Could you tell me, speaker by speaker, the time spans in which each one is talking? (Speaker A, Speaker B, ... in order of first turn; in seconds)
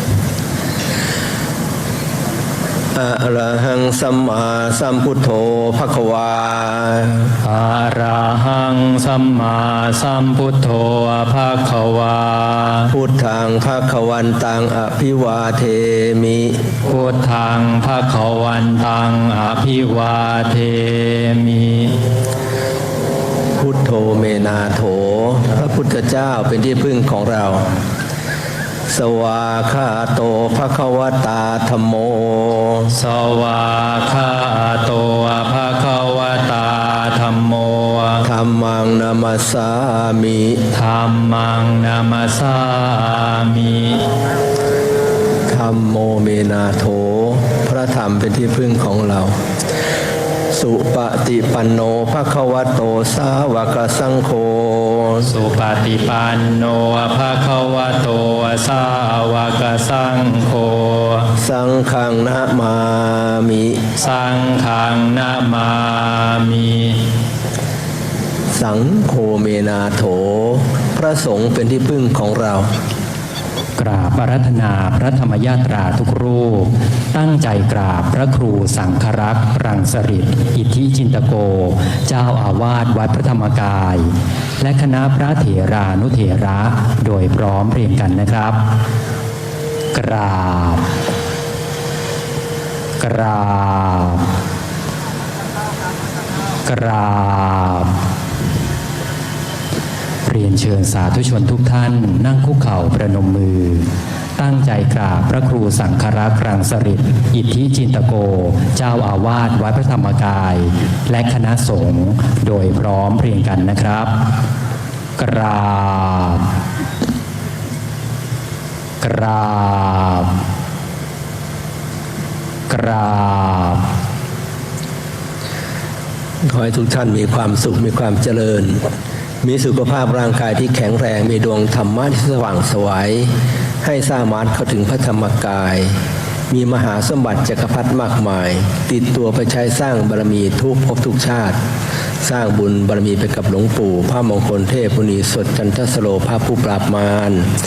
Speaker A: 2.9-7.3, 12.9-16.6, 23.6-27.7, 28.9-32.9, 38.2-40.6, 45.5-49.3, 50.5-55.3, 61.4-63.8, 68.5-72.7, 126.4-128.8, 129.4-135.9, 136.5-141.6, 142.2-147.5
Speaker B: 7.4-12.9, 16.8-22.1, 32.9-38.3, 40.7-44.0, 55.2-61.3, 63.9-67.1, 73.8-88.7, 89.9-90.9, 93.0-94.3, 96.6-97.9, 100.2-114.3, 115.2-116.5, 119.0-120.4, 122.7-123.9